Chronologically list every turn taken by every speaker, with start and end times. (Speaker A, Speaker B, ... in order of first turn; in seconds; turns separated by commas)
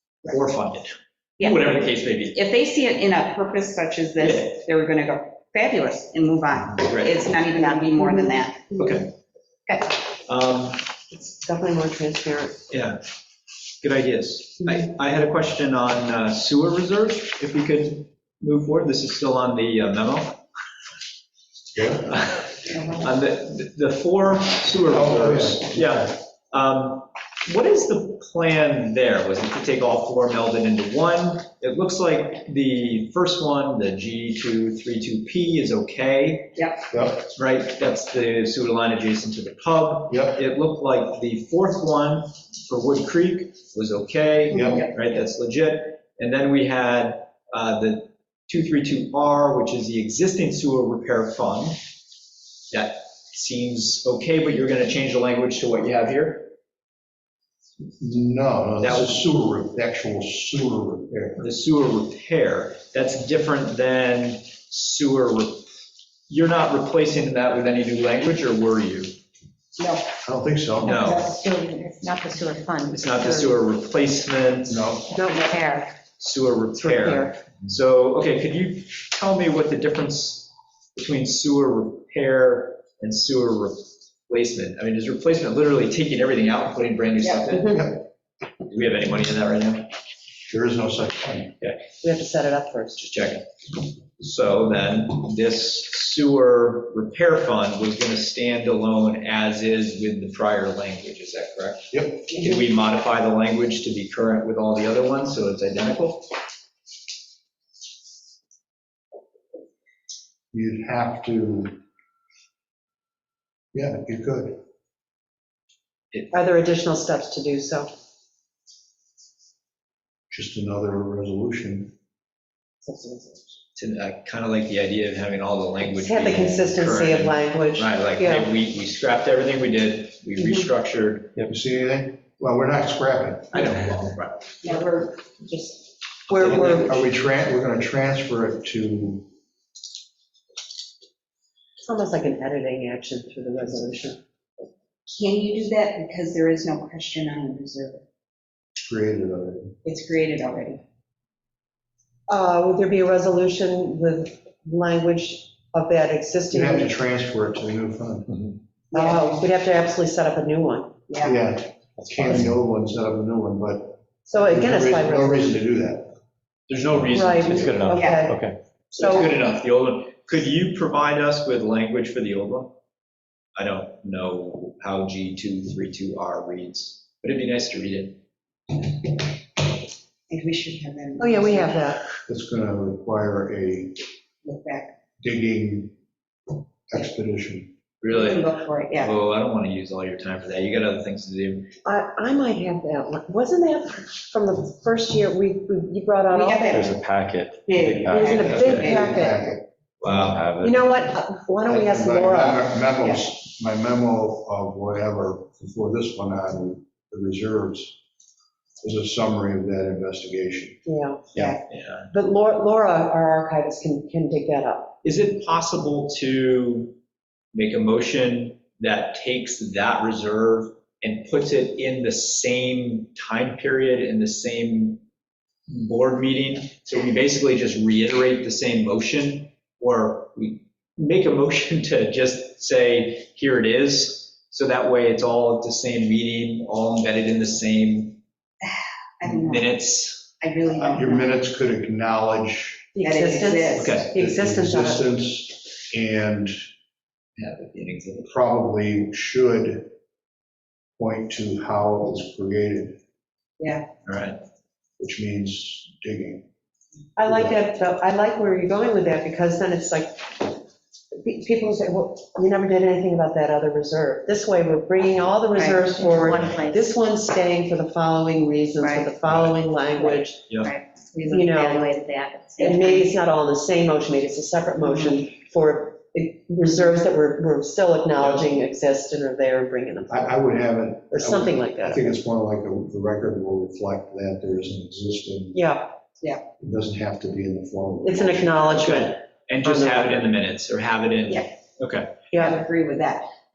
Speaker A: 0.3-2.4, Speaker B: 1.4-8.7, Speaker A: 4.2-4.6, Speaker A: 6.8-7.2, Speaker C: 7.5-8.3, Speaker A: 8.8-9.1, Speaker A: 10.2-10.8, Speaker C: 11.1-12.6, Speaker A: 12.7-13.0, Speaker A: 13.8-20.4, Speaker D: 21.7-22.1, Speaker A: 22.1-36.6, Speaker B: 22.7-23.1, Speaker D: 24.9-26.1, Speaker D: 36.9-37.2, Speaker A: 37.3-51.8, Speaker D: 40.1-40.4, Speaker D: 44.5-44.8, Speaker B: 44.6-44.9, Speaker A: 52.7-56.5, Speaker D: 58.0-61.5, Speaker A: 58.8-59.2, Speaker A: 61.4-65.7, Speaker A: 66.3-69.1, Speaker B: 69.8-70.0, Speaker D: 70.2-71.1, Speaker A: 70.8-71.3, Speaker B: 71.0-71.4, Speaker E: 71.0-73.4, Speaker A: 72.9-74.9, Speaker D: 74.7-75.1, Speaker C: 75.2-75.6, Speaker E: 75.5-75.9, Speaker A: 76.2-88.0, Speaker C: 76.8-77.3, Speaker C: 87.5-87.8, Speaker A: 88.7-89.9, Speaker D: 90.5-91.5, Speaker C: 92.0-93.0, Speaker A: 93.0-93.5, Speaker A: 94.2-106.3, Speaker D: 101.9-102.2, Speaker D: 110.5-111.8, Speaker D: 113.7-114.6, Speaker C: 116.3-117.9, Speaker D: 120.3-121.9, Speaker C: 122.8-123.6, Speaker A: 123.8-131.4, Speaker C: 125.9-128.5, Speaker B: 130.4-130.7, Speaker D: 131.4-133.9, Speaker A: 133.5-134.6, Speaker B: 134.6-135.8, Speaker C: 136.3-137.0, Speaker D: 136.4-139.3, Speaker C: 141.8-144.2, Speaker B: 145.1-148.0, Speaker D: 148.8-149.7, Speaker B: 149.8-150.8, Speaker C: 152.3-156.9, Speaker D: 156.5-158.4, Speaker B: 158.9-159.3, Speaker C: 158.9-161.1, Speaker B: 161.1-161.4, Speaker D: 161.2-166.1, Speaker C: 164.3-165.5, Speaker A: 166.7-167.9, Speaker F: 166.9-168.6, Speaker C: 167.1-169.3, Speaker B: 167.9-168.3, Speaker A: 168.9-172.7, Speaker A: 173.6-178.2, Speaker B: 180.3-181.8, Speaker C: 181.2-182.0, Speaker D: 182.3-184.0, Speaker B: 184.4-184.9, Speaker D: 185.2-185.9, Speaker D: 186.9-187.7, Speaker A: 188.0-191.7, Speaker B: 188.1-189.1, Speaker C: 191.8-196.8, Speaker B: 196.3-197.0, Speaker F: 196.7-198.9, Speaker B: 197.7-199.3, Speaker C: 198.1-199.5, Speaker D: 198.4-199.6, Speaker A: 200.0-200.5, Speaker F: 200.0-200.9, Speaker C: 200.6-202.7, Speaker D: 201.7-208.0, Speaker D: 208.8-210.8, Speaker C: 210.9-211.3, Speaker B: 211.3-211.6, Speaker A: 211.7-212.1, Speaker C: 212.1-214.9, Speaker A: 215.0-216.9, Speaker A: 217.5-225.0, Speaker A: 225.7-238.2, Speaker B: 238.6-239.7, Speaker A: 239.3-240.3, Speaker B: 240.4-241.4, Speaker D: 240.7-242.9, Speaker C: 242.9-245.0, Speaker B: 243.0-244.0, Speaker A: 243.8-244.1, Speaker D: 244.1-246.6, Speaker A: 247.4-248.3, Speaker D: 248.2-249.9, Speaker D: 251.0-253.0, Speaker B: 253.6-253.8, Speaker A: 254.1-254.4, Speaker D: 255.0-256.4, Speaker C: 257.2-260.6, Speaker D: 257.3-257.6, Speaker C: 261.1-270.4, Speaker E: 265.6-266.9, Speaker B: 268.8-269.1, Speaker E: 270.0-273.1, Speaker C: 271.3-271.9, Speaker C: 272.6-280.4, Speaker B: 274.8-275.2, Speaker D: 280.1-285.6, Speaker C: 281.1-282.1, Speaker C: 285.5-285.9, Speaker D: 286.6-288.6, Speaker C: 288.0-290.3, Speaker A: 288.8-292.1, Speaker C: 292.3-292.6, Speaker B: 292.3-293.3